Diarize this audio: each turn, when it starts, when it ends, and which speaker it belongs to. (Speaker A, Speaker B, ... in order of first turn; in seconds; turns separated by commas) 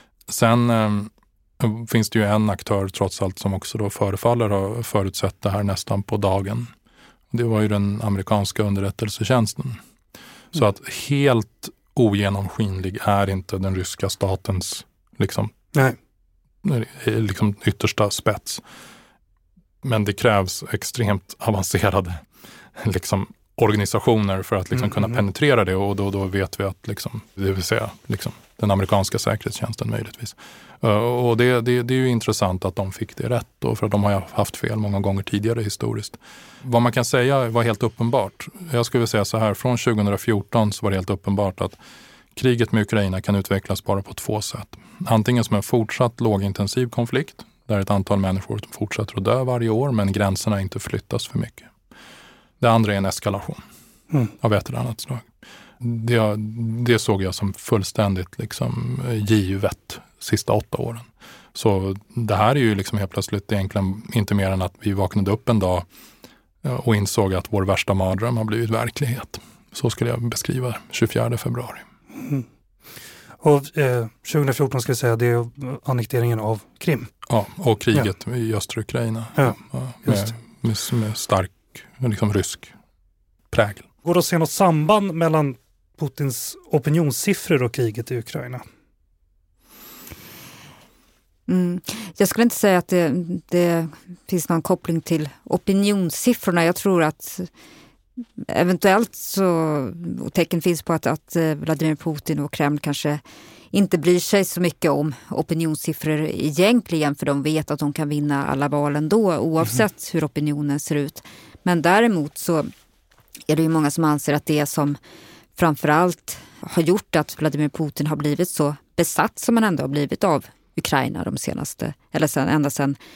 Speaker A: 0.3-6.7, Speaker A: 7.3-9.8, Speaker A: 10.5-15.5, Speaker A: 16.6-18.6, Speaker A: 19.8-22.2, Speaker A: 22.8-41.8, Speaker B: 24.9-25.2, Speaker A: 42.3-51.7, Speaker A: 52.6-53.6, Speaker A: 54.4-55.3, Speaker A: 55.8-65.9, Speaker A: 66.6-71.8, Speaker B: 72.2-72.5, Speaker B: 73.4-77.1, Speaker A: 77.3-82.7, Speaker B: 79.4-80.3, Speaker A: 83.5-83.9, Speaker B: 84.0-88.6, Speaker C: 91.5-97.5, Speaker C: 98.4-103.2, Speaker C: 103.7-112.7, Speaker C: 113.5-115.0, Speaker C: 115.6-123.0